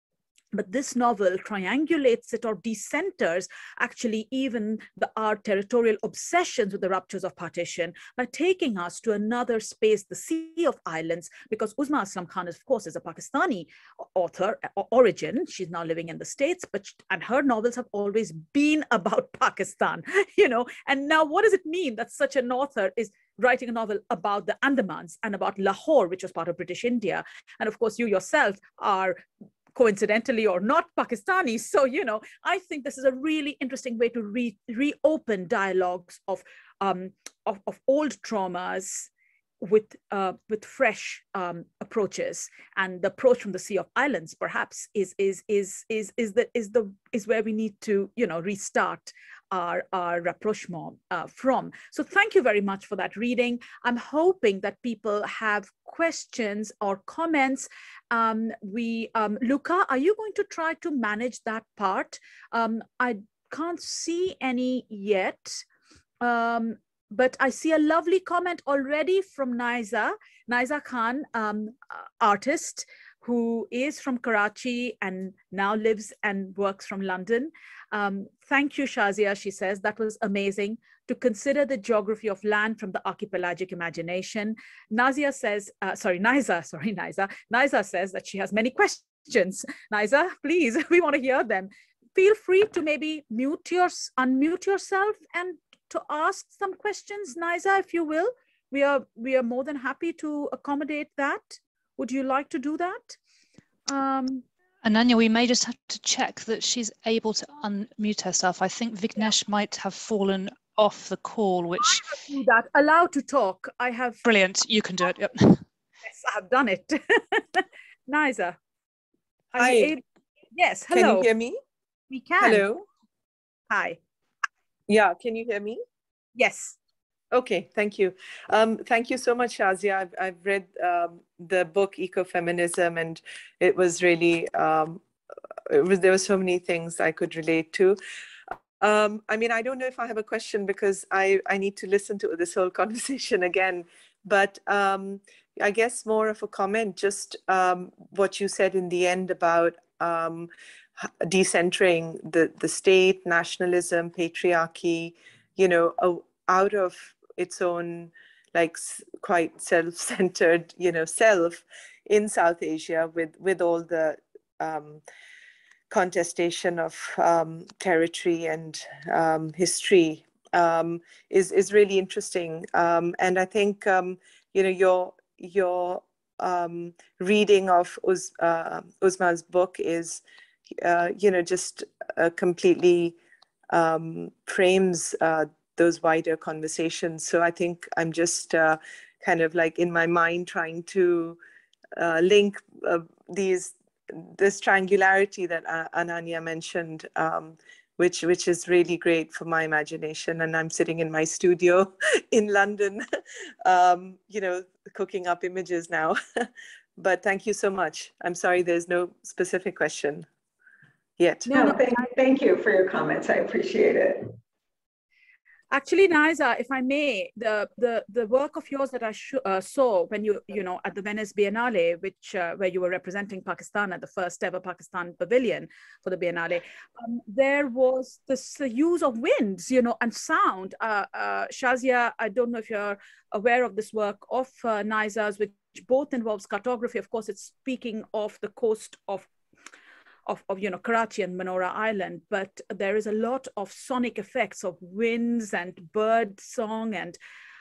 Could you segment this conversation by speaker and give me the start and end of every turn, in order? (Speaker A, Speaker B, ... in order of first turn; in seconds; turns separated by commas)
Speaker A: 0.5-29.2, Speaker A: 29.8-39.1, Speaker A: 39.6-65.6, Speaker A: 66.2-103.2, Speaker A: 103.9-104.4, Speaker B: 104.8-112.1, Speaker A: 111.8-114.2, Speaker B: 114.2-115.6, Speaker A: 116.1-118.6, Speaker A: 119.5-120.0, Speaker C: 119.6-120.0, Speaker A: 120.5-121.3, Speaker C: 120.9-121.6, Speaker A: 122.1-122.7, Speaker C: 122.4-122.8, Speaker A: 123.7-124.0, Speaker C: 124.9-125.8, Speaker A: 126.4-126.8, Speaker C: 127.3-135.0, Speaker C: 135.7-138.0, Speaker C: 138.8-165.0, Speaker C: 165.9-180.2, Speaker C: 180.8-183.2, Speaker C: 183.7-191.4, Speaker C: 192.0-203.0, Speaker C: 203.6-210.3, Speaker C: 211.2-211.5, Speaker D: 211.5-214.3, Speaker A: 215.7-239.3, Speaker A: 240.3-247.2